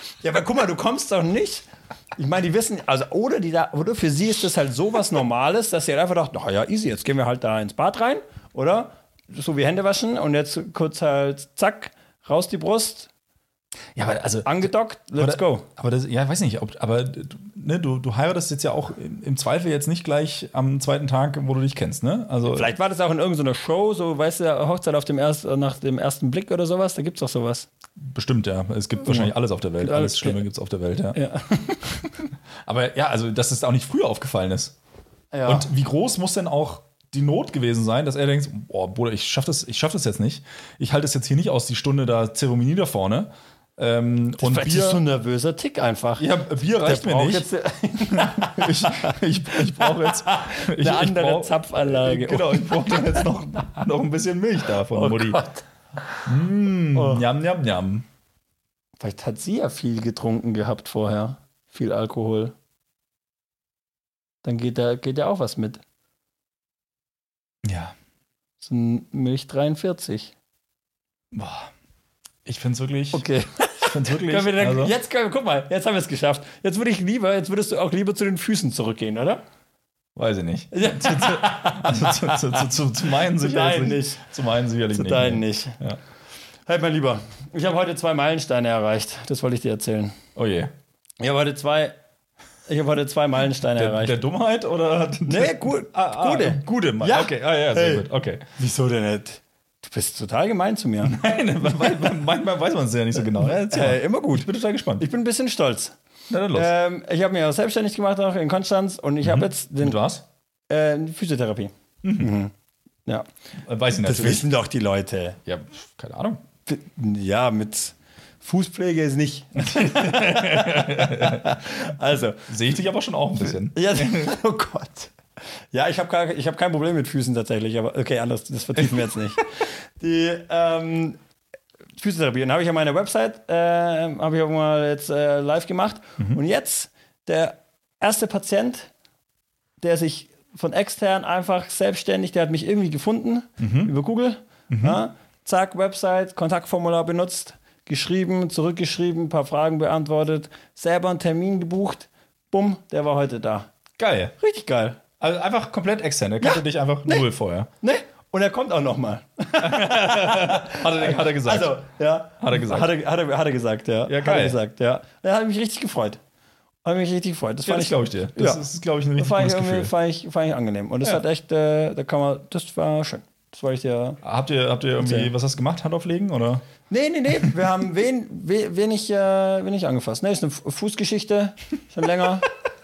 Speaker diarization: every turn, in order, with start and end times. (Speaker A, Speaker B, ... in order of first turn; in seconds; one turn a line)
Speaker A: 0.2-13.1
Speaker B: 13.9-22.7
Speaker A: 14.4-15.7
Speaker A: 22.5-27.7
Speaker B: 28.0-31.2
Speaker A: 29.1-30.4
Speaker A: 31.1-32.1
Speaker B: 32.6-34.8
Speaker A: 35.3-35.7
Speaker B: 35.4-45.0
Speaker A: 44.4-49.2
Speaker B: 46.2-47.5
Speaker B: 48.1-55.4
Speaker A: 49.7-53.3
Speaker A: 54.9-56.3
Speaker B: 56.2-58.0
Speaker A: 56.9-57.2
Speaker A: 59.0-62.5
Speaker A: 64.4-65.8
Speaker B: 67.6-67.9
Speaker A: 68.6-70.3
Speaker B: 71.3-71.7
Speaker B: 72.5-73.2
Speaker A: 73.1-79.4
Speaker B: 73.8-74.9
Speaker B: 80.2-86.0
Speaker A: 80.7-82.6
Speaker A: 83.4-84.2
Speaker A: 84.9-85.8
Speaker A: 86.7-90.2
Speaker B: 90.4-90.7
Speaker A: 91.2-91.9
Speaker A: 92.7-94.2
Speaker B: 93.7-98.4
Speaker A: 95.3-101.2
Speaker B: 101.0-105.0
Speaker A: 103.2-106.0
Speaker B: 106.3-106.7
Speaker A: 106.5-110.0
Speaker B: 109.2-110.2
Speaker A: 110.7-112.5
Speaker B: 112.0-112.3
Speaker B: 113.6-114.4
Speaker A: 114.0-115.4
Speaker B: 115.5-116.4
Speaker A: 116.6-122.5
Speaker B: 119.6-121.6
Speaker B: 122.5-124.3
Speaker A: 123.5-125.1
Speaker A: 125.7-131.2
Speaker A: 132.0-138.9
Speaker A: 139.8-153.7
Speaker B: 143.6-143.9
Speaker B: 144.7-145.0
Speaker B: 154.0-154.3
Speaker A: 154.4-155.0
Speaker B: 155.2-157.7
Speaker A: 156.4-157.2
Speaker A: 157.8-166.2
Speaker B: 159.6-161.8
Speaker B: 162.4-162.9
Speaker B: 164.1-164.6
Speaker A: 166.8-168.6
Speaker B: 167.6-169.9
Speaker A: 169.2-174.2
Speaker B: 174.2-176.6
Speaker A: 175.0-175.3
Speaker A: 176.9-182.5